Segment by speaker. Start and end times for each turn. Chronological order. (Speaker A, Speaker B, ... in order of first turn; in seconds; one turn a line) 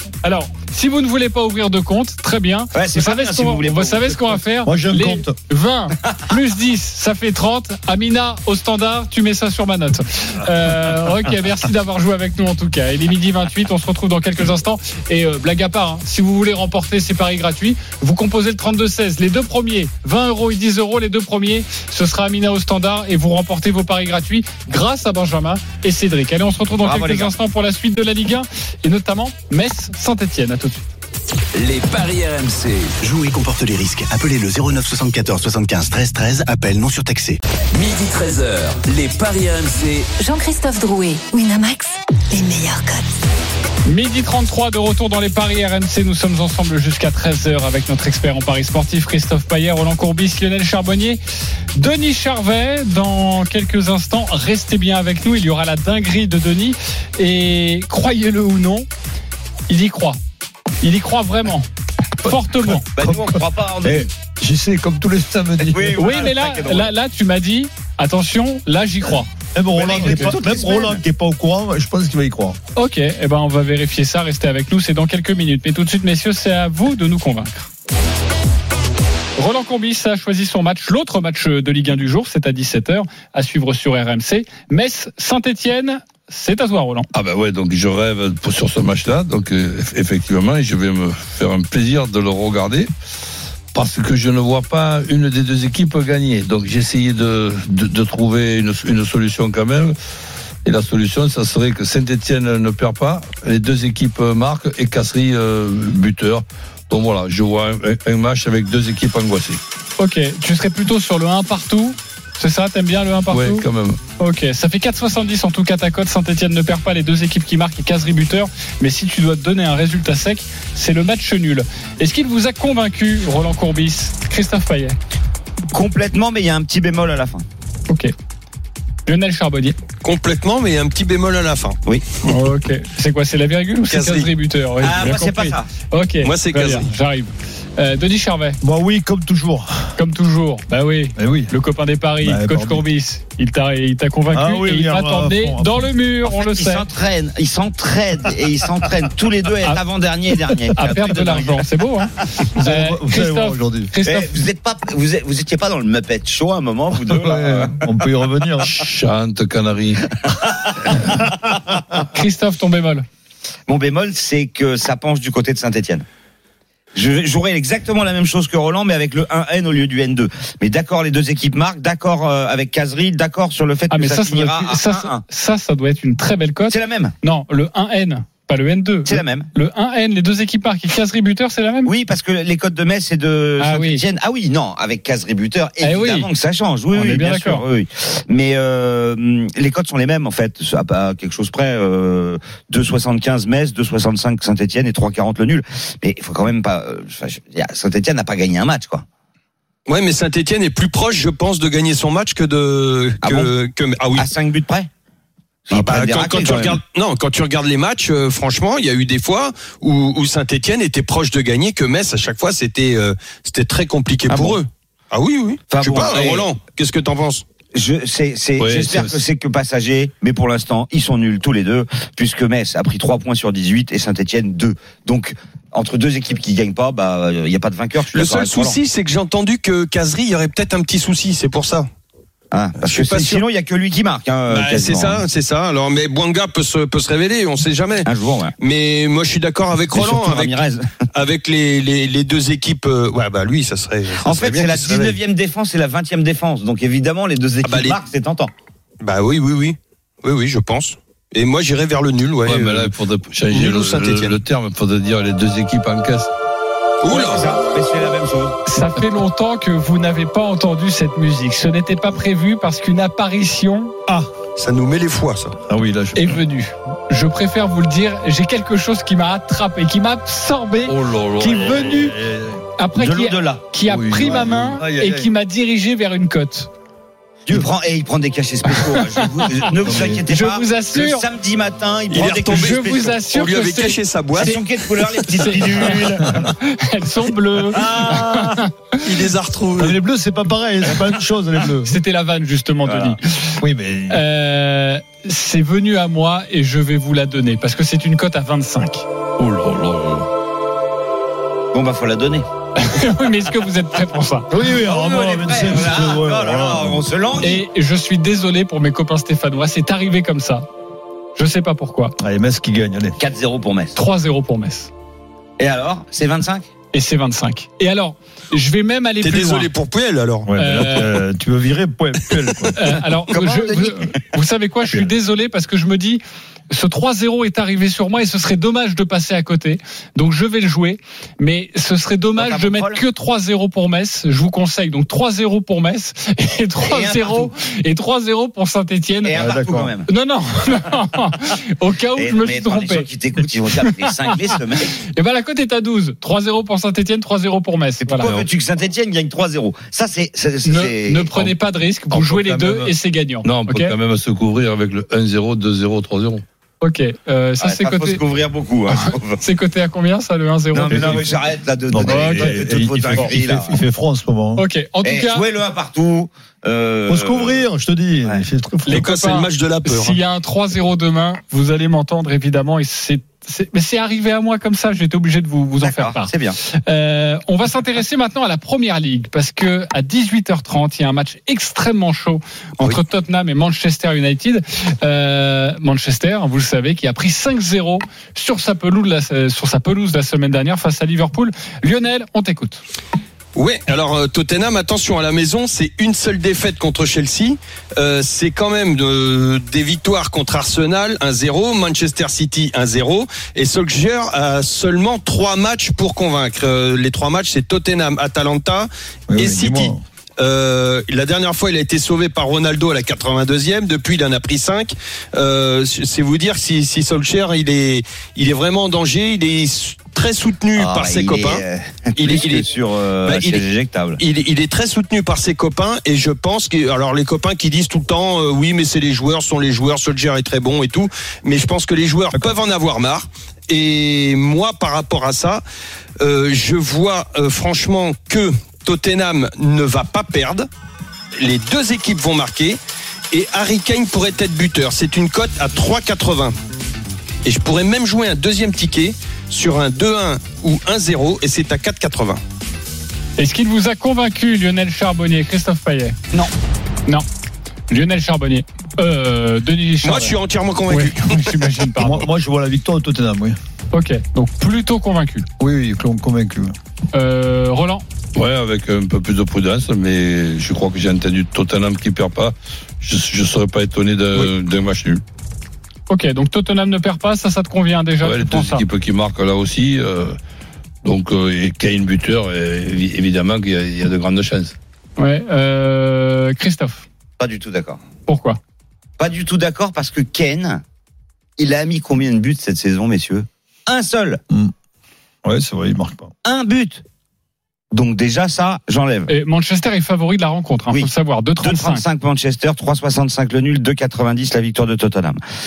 Speaker A: 0.2-30.8
Speaker B: 2.7-4.4
Speaker C: 4.6-5.3
Speaker B: 26.8-27.3
Speaker D: 31.5-32.9
Speaker E: 33.0-37.4
Speaker D: 37.7-40.1
Speaker F: 40.2-43.1
Speaker A: 43.8-51.2
Speaker A: 51.7-58.9
Speaker A: 59.7-60.2
Speaker A: 60.8-61.7
Speaker A: 62.2-62.9
Speaker B: 63.0-64.1
Speaker C: 63.0-66.2
Speaker B: 65.7-66.9
Speaker A: 66.0-69.3
Speaker C: 69.5-72.6
Speaker B: 69.7-71.0
Speaker A: 72.8-77.7
Speaker A: 79.4-87.1
Speaker G: 87.1-92.9
Speaker G: 93.7-100.0
Speaker G: 100.6-109.6
Speaker A: 110.0-113.7
Speaker G: 113.3-114.0
Speaker A: 114.2-125.0
Speaker B: 125.7-127.4
Speaker A: 129.1-129.8
Speaker H: 130.0-131.8
Speaker A: 132.2-138.6
Speaker H: 133.9-134.3
Speaker B: 134.8-135.7
Speaker H: 136.2-136.9
Speaker C: 138.6-139.9
Speaker A: 140.0-146.8
Speaker C: 141.2-141.5
Speaker C: 142.2-142.8
Speaker C: 144.3-145.9
Speaker B: 146.2-151.7
Speaker A: 150.7-154.4
Speaker C: 152.5-153.9
Speaker B: 154.0-157.8
Speaker C: 157.1-158.8
Speaker G: 158.7-160.1
Speaker B: 160.3-161.2
Speaker A: 162.1-163.1
Speaker B: 163.7-166.0
Speaker B: 166.9-175.2
Speaker A: 173.9-181.9
Speaker B: 176.7-177.1
Speaker B: 179.1-179.5
Speaker B: 181.8-199.0
Speaker A: 183.6-184.0
Speaker A: 185.8-186.3
Speaker A: 186.9-187.6
Speaker H: 199.9-204.3
Speaker B: 203.2-203.5
Speaker B: 204.2-204.9
Speaker B: 205.7-206.8
Speaker H: 205.7-217.4
Speaker B: 214.3-214.6
Speaker B: 215.7-216.5
Speaker B: 217.7-228.8
Speaker G: 218.6-219.2
Speaker H: 228.1-231.9
Speaker B: 232.5-235.2
Speaker H: 232.8-233.4
Speaker H: 234.5-238.1
Speaker B: 238.0-238.5
Speaker H: 238.6-240.6
Speaker B: 239.9-240.9
Speaker H: 241.1-245.2
Speaker B: 244.2-248.5
Speaker H: 247.6-248.0
Speaker H: 249.0-252.9
Speaker G: 252.4-256.3
Speaker H: 253.5-254.4
Speaker H: 257.0-257.5
Speaker B: 257.1-258.6
Speaker A: 258.7-263.9
Speaker H: 264.6-265.5
Speaker C: 265.7-266.3
Speaker A: 266.1-272.2
Speaker G: 270.9-272.0
Speaker C: 271.6-272.6
Speaker A: 272.8-276.7
Speaker B: 272.9-273.6
Speaker G: 273.9-274.9
Speaker C: 274.8-275.2
Speaker B: 277.5-283.2
Speaker A: 278.7-279.4
Speaker C: 279.8-280.2
Speaker A: 280.0-281.2
Speaker H: 282.1-284.6
Speaker A: 282.3-284.6
Speaker B: 284.4-286.5
Speaker A: 285.2-289.0
Speaker B: 287.8-288.3
Speaker C: 287.9-288.3
Speaker H: 289.0-289.9
Speaker C: 289.8-292.0
Speaker A: 291.9-293.6
Speaker C: 293.6-294.2
Speaker A: 294.1-299.0
Speaker G: 299.4-300.3
Speaker B: 301.7-302.4
Speaker A: 302.8-304.5
Speaker C: 304.5-307.1
Speaker B: 304.8-307.6
Speaker A: 307.4-310.6
Speaker A: 311.4-312.1
Speaker C: 312.2-313.2
Speaker B: 313.2-313.9
Speaker A: 313.9-314.9
Speaker B: 315.6-316.7
Speaker A: 316.9-319.7
Speaker H: 319.2-320.5
Speaker C: 320.5-322.9
Speaker A: 320.6-321.1
Speaker A: 322.7-343.1
Speaker B: 323.3-324.1
Speaker B: 332.4-333.0
Speaker B: 336.8-337.5
Speaker B: 339.2-340.1
Speaker C: 339.3-339.9
Speaker B: 342.2-344.9
Speaker A: 345.1-348.4
Speaker B: 348.0-351.5
Speaker A: 350.6-353.9
Speaker G: 352.1-352.9
Speaker G: 353.4-356.4
Speaker A: 356.8-358.2
Speaker B: 357.6-359.4
Speaker A: 359.4-361.3
Speaker B: 360.7-363.8
Speaker C: 360.9-361.2
Speaker C: 361.9-364.6
Speaker A: 362.0-363.3
Speaker A: 364.6-365.4
Speaker B: 365.0-367.6
Speaker C: 367.1-369.1
Speaker A: 368.8-392.8
Speaker H: 368.9-370.2
Speaker B: 375.8-376.6
Speaker H: 393.5-421.6
Speaker C: 409.3-410.0
Speaker B: 420.8-424.2
Speaker H: 422.1-422.7
Speaker H: 423.2-423.6
Speaker H: 424.2-435.6
Speaker H: 436.2-440.7
Speaker H: 441.4-442.8
Speaker H: 443.3-446.5
Speaker H: 447.4-452.4
Speaker A: 453.4-456.2
Speaker A: 457.9-460.4
Speaker H: 460.0-461.5
Speaker A: 460.9-462.2
Speaker C: 462.0-463.6
Speaker A: 463.9-465.5
Speaker C: 465.6-466.7
Speaker A: 467.1-468.0
Speaker G: 468.3-475.2
Speaker A: 476.1-478.8
Speaker G: 478.2-480.4
Speaker G: 481.0-484.7
Speaker A: 485.2-487.1
Speaker B: 487.4-488.0
Speaker A: 488.2-488.6
Speaker B: 489.2-490.8
Speaker B: 491.6-494.4
Speaker C: 495.4-496.3
Speaker B: 496.4-497.0
Speaker B: 497.9-499.3
Speaker A: 499.3-502.0
Speaker B: 500.9-505.4